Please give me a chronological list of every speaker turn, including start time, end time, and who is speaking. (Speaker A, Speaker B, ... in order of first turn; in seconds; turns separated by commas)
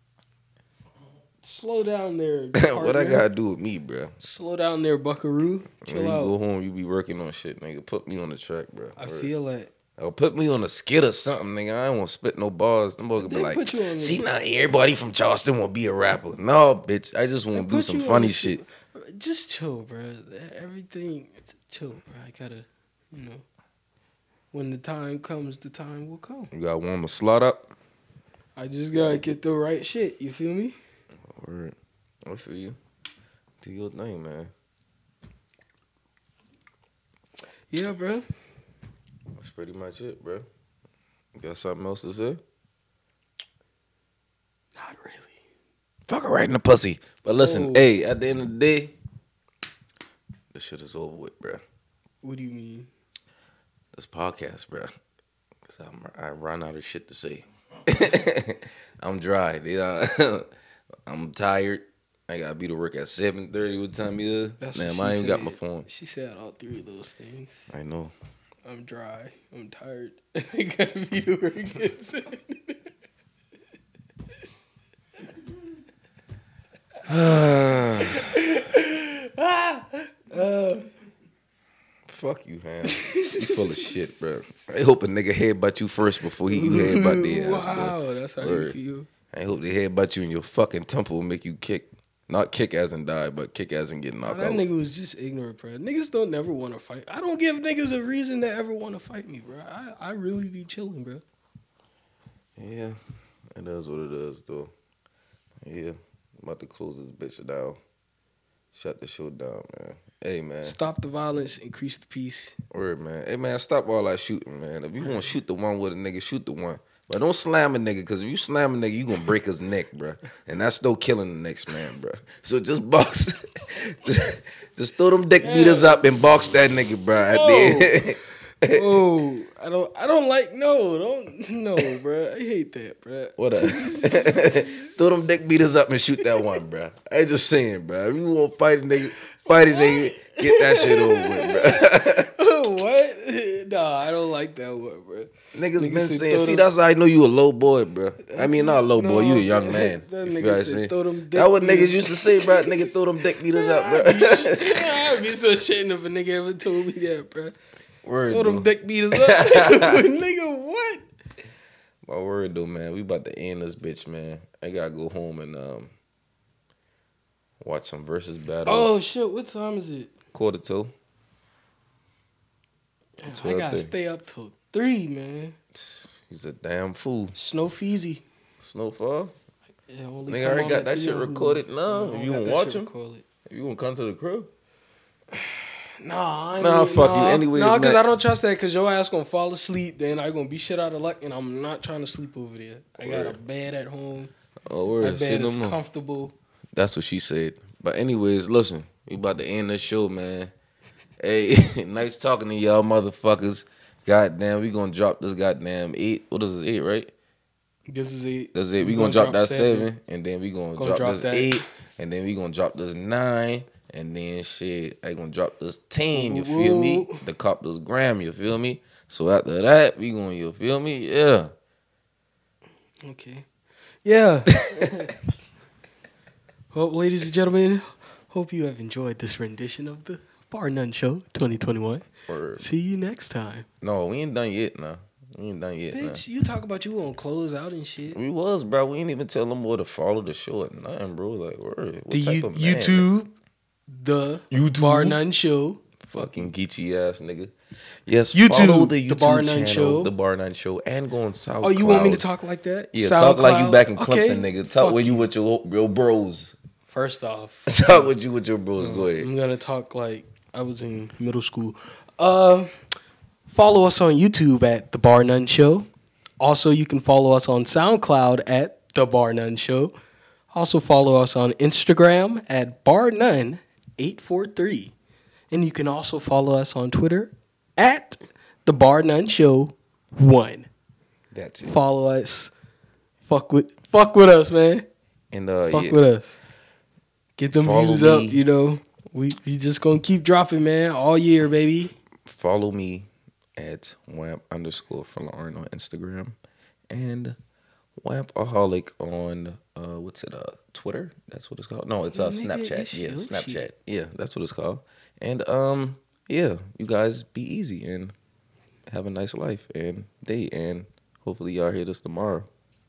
Speaker A: 1.4-3.3, Speaker B: 2.5-4.1, Speaker A: 4.2-6.3, Speaker B: 5.8-9.3, Speaker A: 9.0-9.7, Speaker B: 10.0-18.6, Speaker A: 13.2-14.4, Speaker A: 17.5-23.4, Speaker A: 24.5-26.5, Speaker B: 26.5-27.7, Speaker A: 28.6-30.8, Speaker B: 28.9-29.3, Speaker B: 31.2-31.7, Speaker B: 32.2-32.8, Speaker B: 33.6-34.5, Speaker A: 37.7-38.2, Speaker B: 39.4-40.5, Speaker B: 41.4-42.4, Speaker A: 44.8-45.4, Speaker B: 46.1-48.9, Speaker A: 47.3-47.9, Speaker B: 50.5-51.6, Speaker A: 52.2-52.9, Speaker B: 53.9-54.9, Speaker B: 55.7-60.5, Speaker B: 61.0-65.9, Speaker A: 64.6-67.7, Speaker B: 67.7-68.1, Speaker A: 68.7-72.8, Speaker B: 77.0-78.3, Speaker A: 78.1-80.9, Speaker B: 82.1-88.8, Speaker A: 82.8-83.8, Speaker A: 86.5-89.1, Speaker B: 89.3-94.6, Speaker A: 94.2-101.2, Speaker B: 102.6-103.0, Speaker B: 103.5-104.7, Speaker B: 105.6-107.8, Speaker B: 108.7-110.8, Speaker A: 110.6-112.5, Speaker B: 112.7-129.0, Speaker A: 125.4-126.2, Speaker A: 127.1-128.0, Speaker A: 128.7-134.9, Speaker B: 133.4-142.3, Speaker A: 139.5-146.7, Speaker B: 145.5-155.0, Speaker A: 148.2-157.6, Speaker B: 158.0-160.0, Speaker A: 158.3-161.1, Speaker B: 162.1-165.9, Speaker B: 167.6-169.0, Speaker A: 168.7-170.1, Speaker B: 170.3-170.9, Speaker A: 173.2-175.6, Speaker B: 173.3-173.9, Speaker B: 175.7-177.3, Speaker A: 177.3-178.2, Speaker B: 178.6-179.3, Speaker A: 179.9-183.2, Speaker B: 180.3-182.9, Speaker B: 183.5-184.5, Speaker A: 186.0-194.3, Speaker B: 186.6-188.0, Speaker B: 193.0-193.4, Speaker B: 194.7-195.8, Speaker A: 195.0-196.3, Speaker B: 196.7-200.5, Speaker B: 201.2-207.1, Speaker A: 207.9-209.9, Speaker B: 208.5-221.5, Speaker A: 210.8-211.6, Speaker A: 216.1-217.2, Speaker A: 223.0-223.5, Speaker A: 224.0-225.1, Speaker A: 226.7-233.7, Speaker B: 232.3-232.7, Speaker B: 233.8-236.2, Speaker A: 235.9-238.2, Speaker B: 238.1-243.1, Speaker A: 242.1-243.3, Speaker A: 243.9-246.5, Speaker B: 244.5-245.2, Speaker B: 246.0-247.5, Speaker B: 248.1-252.2, Speaker A: 248.3-250.1, Speaker A: 251.6-255.3, Speaker B: 252.9-256.5, Speaker A: 256.9-258.1, Speaker B: 257.7-259.3, Speaker A: 258.8-262.7, Speaker A: 263.5-265.9, Speaker A: 266.4-269.9, Speaker A: 270.5-274.9, Speaker A: 275.5-280.7, Speaker B: 281.3-281.8, Speaker A: 281.6-282.5, Speaker A: 283.2-284.9, Speaker B: 285.3-286.0, Speaker A: 285.7-286.4, Speaker A: 287.4-291.9, Speaker B: 287.5-288.4, Speaker B: 292.2-296.4, Speaker B: 296.9-297.4, Speaker B: 298.0-308.1, Speaker A: 302.1-303.6, Speaker B: 308.9-312.5